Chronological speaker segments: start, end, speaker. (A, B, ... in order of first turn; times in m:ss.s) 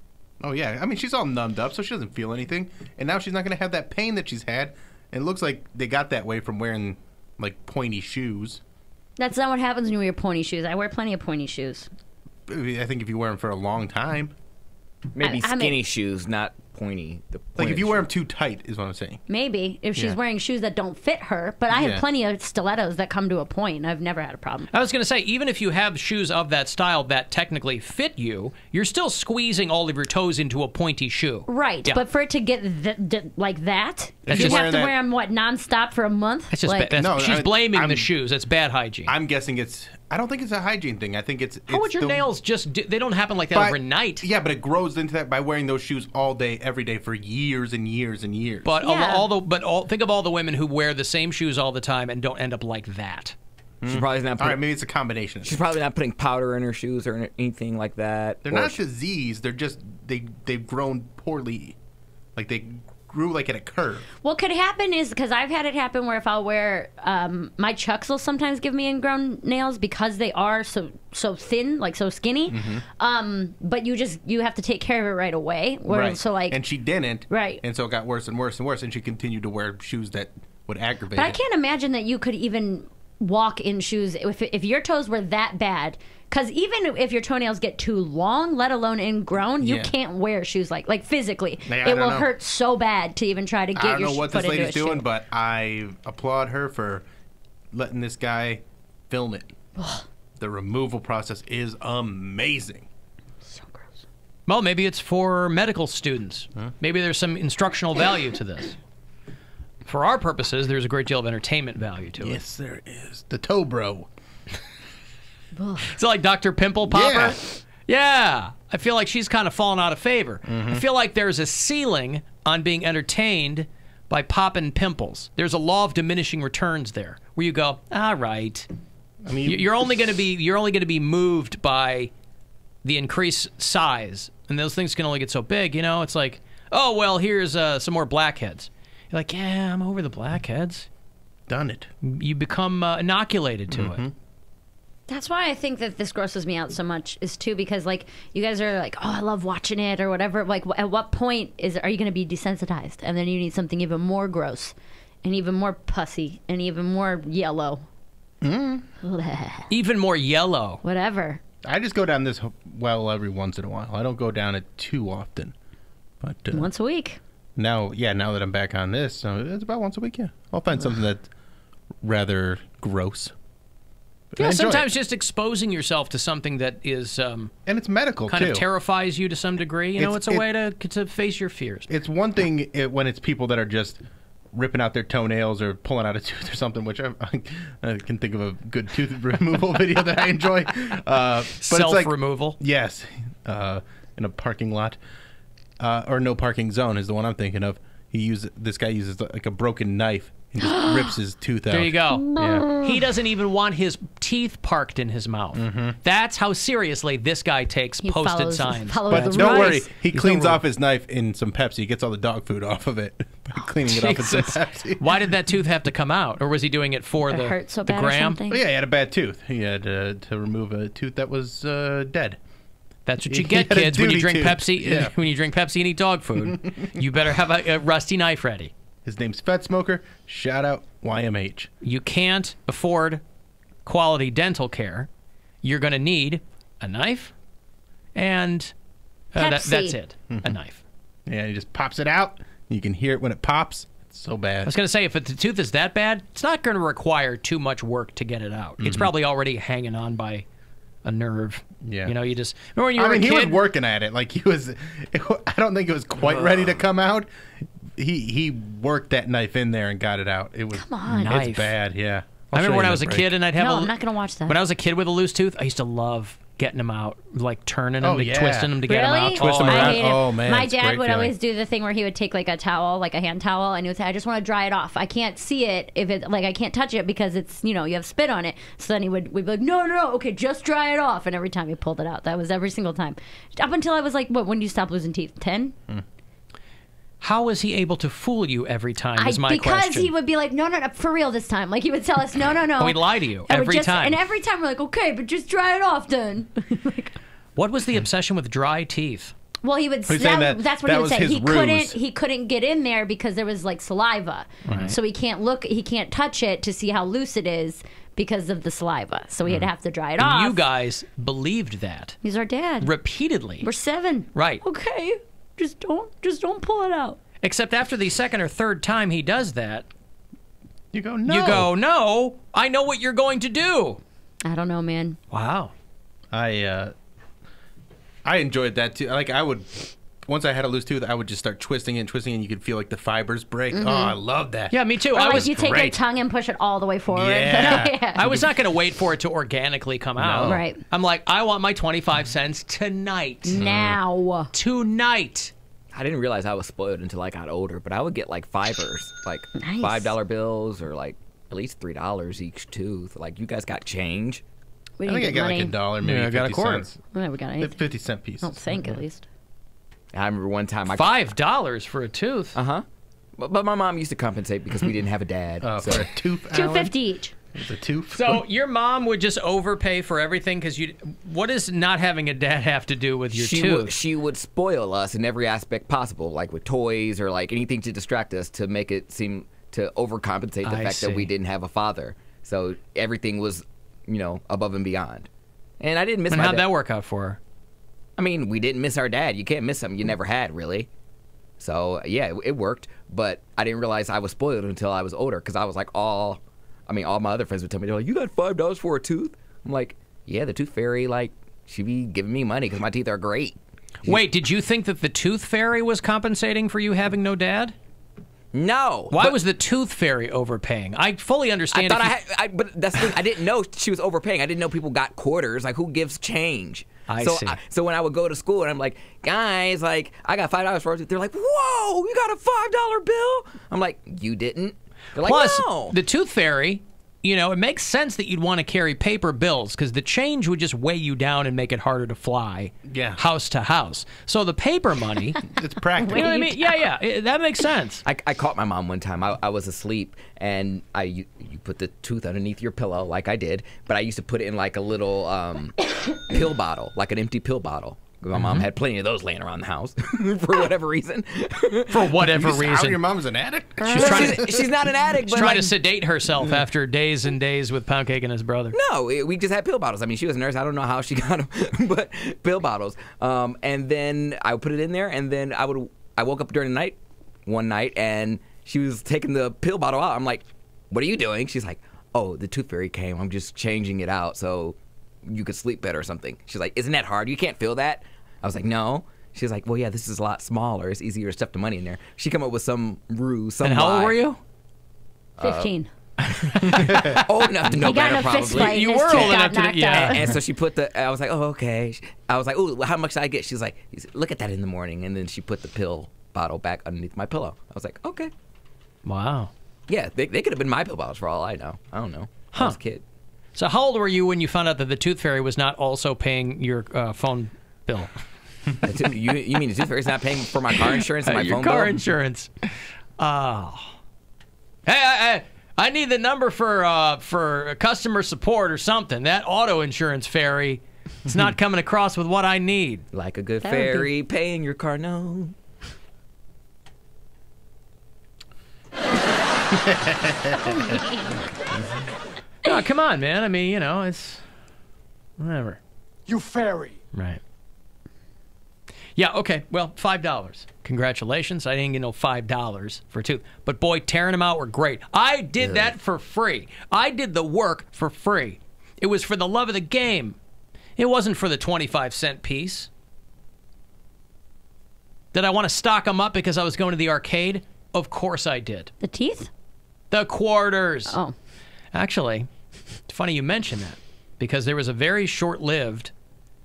0:00.4-0:08.6 A
0:09.2-0:11.9 B
0:12.5-0:14.3 A
0:15.2-0:18.1 C
0:15.2-0:15.8 B
0:17.6-0:19.2 A
0:19.3-0:24.7 B
0:21.7-0:22.0 A
0:24.7-0:32.0 D
0:31.5-0:36.9 B
0:34.3-0:34.7 D
0:34.3-0:34.9 A
0:36.5-0:39.1 D
0:36.9-0:38.1 A
0:39.0-0:42.3 A
0:41.7-0:44.2 D
0:43.5-0:48.7 A
0:48.6-0:53.3 D
0:48.8-0:49.3 B
0:53.8-0:55.6 A
0:53.9-0:54.6 C
0:55.4-0:58.8 C
0:58.4-1:01.8 A
1:02.4-1:04.0 A
1:04.2-1:16.6 B
1:12.5-1:12.8 A
1:15.9-1:21.4 A
1:17.3-1:17.6 B
1:21.1-1:35.0 B
1:29.6-1:29.9 A
1:31.7-1:32.3 A
1:33.8-1:37.0 A
1:37.7-1:39.5 A
1:39.8-1:40.0 B
1:40.4-1:42.9 A
1:43.4-1:44.0 B
1:44.5-1:48.8 D
1:49.8-1:52.4 D
1:52.2-1:54.1 A
1:55.5-1:55.9 B
1:55.8-2:08.7 D
1:56.9-1:57.4 A
2:00.5-2:00.8 A
2:09.2-2:09.7 A
2:09.4-2:12.1 D
2:12.8-2:20.9 D
2:21.5-2:21.9 A
2:22.0-2:24.0 D
2:23.7-2:24.1 A
2:25.1-2:37.8 B
2:38.4-2:38.8 A
2:39.0-2:39.7 B
2:39.7-2:40.8 D
2:40.8-2:41.4 B
2:41.6-2:45.5 A
2:46.2-2:46.7 A
2:46.5-2:47.2 B
2:47.6-2:51.3 A
2:52.0-2:53.3 A
2:54.3-2:54.9 A
2:54.4-2:57.5 D
2:57.6-2:58.6 A
2:58.3-3:01.9 D
3:00.0-3:00.4 A
3:01.9-3:15.0 A
3:11.6-3:12.6 D
3:15.8-3:22.7 A
3:20.6-3:21.1 B
3:21.7-3:30.6 D
3:22.1-3:23.0 B
3:25.5-3:26.0 A
3:28.0-3:29.9 B
3:29.1-3:35.2 A
3:33.8-3:38.4 D
3:37.2-3:38.6 B
3:38.5-3:42.4 A
3:43.0-3:48.7 D
3:43.2-3:45.1 A
3:49.0-3:51.7 A
3:51.8-3:53.2 D
3:53.8-3:55.1 D
3:55.6-3:57.3 D
3:58.1-3:58.7 D
3:59.3-4:00.8 D
3:59.4-4:00.0 B
4:00.3-4:00.6 A
4:01.3-4:04.7 A
4:04.6-4:10.4 D
4:08.8-4:09.1 A
4:11.0-4:13.6 D
4:11.8-4:12.1 A
4:13.0-4:17.3 A
4:18.0-4:23.3 A
4:20.8-4:21.3 B
4:21.1-4:21.7 D
4:22.5-4:23.9 D
4:23.5-4:24.6 B
4:24.5-4:30.1 D
4:28.0-4:28.7 A
4:28.8-4:45.7 B
4:29.3-4:31.3 A
4:47.2-4:50.1 D
4:49.2-4:57.1 B
4:52.8-4:54.2 D
4:57.6-4:59.3 D
4:59.6-5:10.6 B
5:00.1-5:02.0 A
5:04.6-5:04.9 A
5:04.7-5:04.9 D
5:10.2-5:12.2 D
5:12.2-5:12.9 B
5:12.8-5:13.7 D
5:13.6-5:17.2 B
5:14.3-5:14.6 D
5:17.4-5:19.8 D
5:20.9-5:21.7 A
5:21.2-5:24.0 D
5:24.4-5:25.2 B
5:25.3-5:25.7 D
5:26.3-5:26.9 A
5:28.2-5:36.0 A
5:33.7-5:34.2 B
5:34.7-5:35.5 D
5:35.1-5:38.4 B
5:37.1-5:38.3 A
5:37.5-5:43.6 D
5:40.2-5:40.6 A
5:40.4-5:40.8 B
5:43.4-5:44.5 B
5:43.6-5:44.0 A
5:44.5-5:45.5 D
5:45.9-5:54.4 C
5:49.6-5:50.2 B
5:55.0-5:55.7 B
5:55.0-5:57.0 A
5:56.0-5:56.9 D
5:57.1-5:57.8 B
5:57.6-5:59.0 A
5:58.4-5:59.2 B
6:00.1-6:01.2 C
6:00.9-6:02.6 D
6:02.5-6:02.8 C
6:03.4-6:06.1 C
6:05.6-6:06.9 A
6:06.5-6:07.3 B
6:07.5-6:08.4 A
6:08.1-6:14.0 D
6:13.3-6:25.3 C
6:20.6-6:21.3 D
6:25.8-6:26.7 C
6:26.3-6:27.4 D
6:28.2-6:30.9 C
6:31.6-6:44.2 C
6:44.0-6:47.7 D
6:48.5-6:49.4 C
6:49.1-6:52.1 D
6:51.7-7:06.0 C
6:57.1-6:57.6 D
7:05.2-7:15.4 D
7:12.9-7:13.2 A
7:15.5-7:16.3 A
7:16.0-7:16.8 B
7:16.0-7:18.0 D
7:18.0-7:32.1 C
7:28.3-7:28.7 D
7:31.9-7:33.0 D
7:32.1-7:34.7 A
7:33.8-7:35.7 C
7:33.8-7:34.4 D
7:35.3-7:38.8 D
7:38.7-8:04.2 C
8:03.6-8:04.4 D
8:05.4-8:05.7 C
8:05.4-8:05.9 B
8:06.3-8:10.3 D
8:06.9-8:18.3 C
8:07.7-8:10.3 B
8:19.0-8:19.5 D
8:19.9-8:23.0 C
8:22.5-8:22.8 D
8:23.5-8:28.1 D
8:28.8-8:32.0 C
8:30.8-8:34.0 D
8:34.8-8:43.0 D
8:43.1-8:45.5 C
8:43.6-8:44.1 B
8:49.8-8:50.8 A
8:52.6-8:54.4 D
8:55.4-8:55.8 D
8:56.4-8:56.9 A
8:57.1-8:57.4 D
8:59.1-9:10.4 D
9:05.6-9:05.9 C
9:11.0-9:12.9 D
9:15.3-9:18.9 D
9:19.0-9:19.5 B
9:20.1-9:21.2 D
9:21.9-9:22.5 D
9:23.1-9:26.1 D